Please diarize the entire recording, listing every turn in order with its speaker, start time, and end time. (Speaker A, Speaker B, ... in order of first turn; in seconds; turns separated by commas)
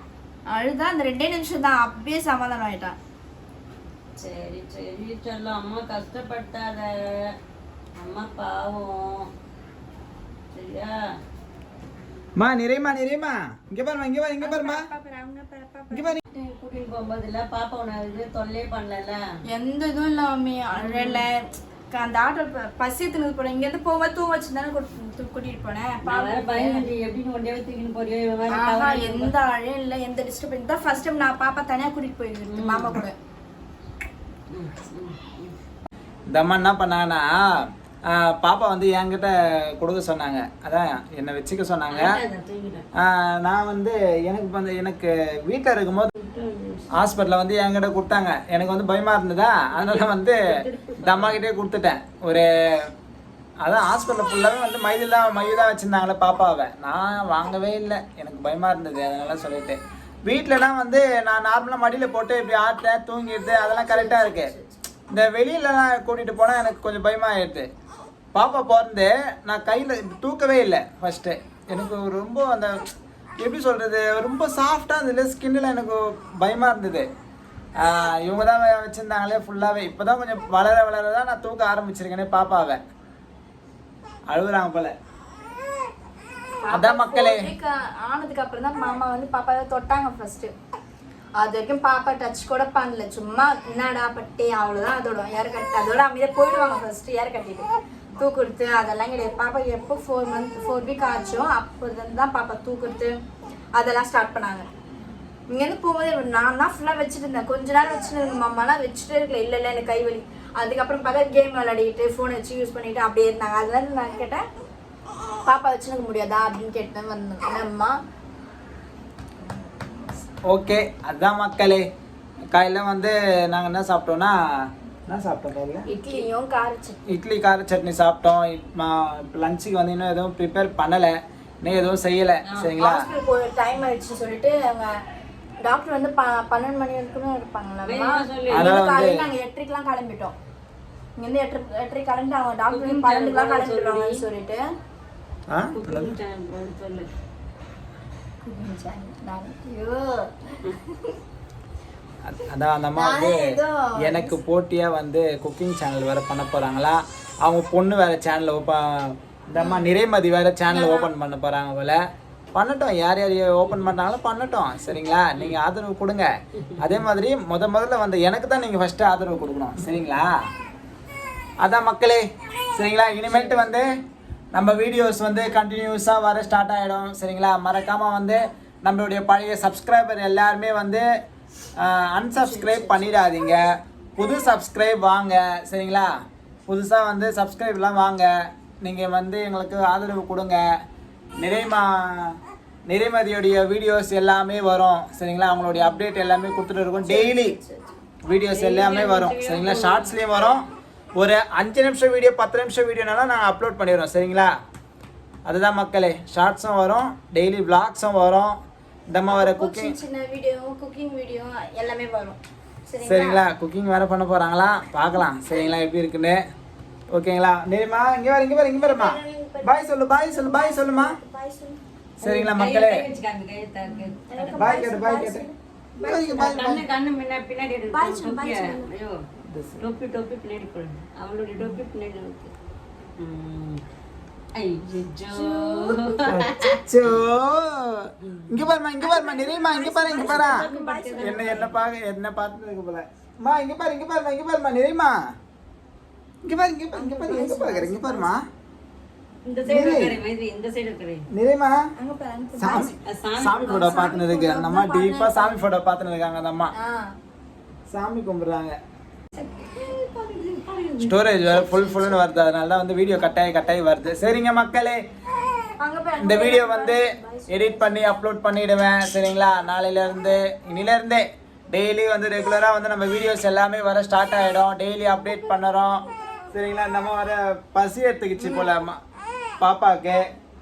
Speaker A: 0.5-2.9, Speaker B: 4.2-7.2, Speaker B: 8.0-9.3, Speaker B: 10.5-10.9, Speaker C: 12.4-14.8, Speaker A: 14.4-16.2, Speaker C: 15.9-16.2, Speaker B: 16.3-19.2, Speaker A: 19.5-26.9, Speaker B: 20.7-21.2, Speaker B: 26.0-29.3, Speaker A: 28.5-33.1, Speaker B: 32.5-33.0, Speaker B: 34.5-35.5, Speaker C: 36.3-42.2, Speaker B: 41.9-42.9, Speaker C: 43.0-46.1, Speaker B: 46.2-46.9, Speaker C: 46.9-50.4, Speaker B: 49.7-51.4, Speaker C: 51.0-52.9, Speaker C: 53.6-64.5, Speaker A: 63.9-64.8, Speaker C: 65.1-67.7, Speaker C: 68.3-77.1, Speaker C: 77.8-82.8, Speaker C: 84.3-84.9, Speaker A: 86.6-90.5, Speaker C: 86.7-87.5, Speaker A: 91.4-103.1, Speaker A: 103.8-104.7, Speaker A: 105.5-114.4, Speaker A: 115.5-117.9, Speaker C: 120.5-121.8, Speaker C: 122.5-124.3, Speaker C: 125.1-125.9, Speaker A: 125.9-127.1, Speaker C: 127.1-133.0, Speaker B: 132.4-132.7, Speaker A: 132.8-134.9, Speaker A: 135.6-140.3, Speaker B: 137.8-138.8, Speaker C: 138.5-139.1, Speaker A: 141.2-144.6, Speaker B: 142.7-144.2, Speaker C: 145.5-146.1, Speaker B: 145.7-147.1, Speaker A: 148.4-151.1, Speaker C: 152.2-153.5, Speaker A: 152.9-154.3, Speaker C: 154.0-162.0, Speaker A: 159.5-159.9, Speaker A: 160.7-161.1, Speaker C: 162.5-170.3, Speaker C: 171.6-174.0, Speaker B: 173.3-173.6, Speaker C: 174.5-181.1, Speaker C: 181.8-186.1, Speaker A: 182.3-183.1, Speaker C: 186.7-190.6, Speaker C: 191.4-192.3, Speaker C: 192.9-197.6, Speaker A: 195.7-196.0, Speaker A: 197.0-198.0, Speaker C: 198.2-204.5, Speaker B: 198.5-200.6, Speaker C: 205.4-208.5, Speaker C: 209.1-209.9, Speaker A: 209.3-213.4, Speaker C: 213.0-216.4, Speaker C: 217.1-221.1, Speaker A: 218.8-221.8, Speaker C: 222.2-223.0, Speaker B: 222.2-224.8, Speaker A: 223.8-226.8, Speaker C: 224.6-225.4, Speaker C: 226.0-226.8, Speaker B: 226.3-229.2, Speaker A: 227.9-228.9, Speaker C: 229.5-229.8, Speaker B: 229.8-232.5, Speaker B: 233.2-233.8, Speaker B: 234.6-236.8, Speaker A: 235.3-236.2, Speaker C: 236.3-240.7, Speaker B: 238.2-238.7, Speaker A: 239.0-241.7, Speaker B: 239.9-241.7, Speaker C: 241.2-245.1, Speaker C: 246.4-248.4, Speaker A: 246.9-248.3, Speaker B: 249.5-251.2, Speaker C: 249.7-250.2, Speaker C: 251.3-251.7, Speaker A: 252.0-253.0, Speaker C: 252.6-256.7, Speaker B: 253.0-254.2, Speaker A: 253.6-255.6, Speaker A: 256.8-257.1, Speaker C: 257.9-258.8, Speaker A: 259.7-262.2, Speaker B: 259.8-260.9, Speaker C: 261.0-265.0, Speaker A: 265.8-268.0, Speaker C: 266.2-279.0, Speaker A: 278.4-278.7, Speaker C: 279.6-280.3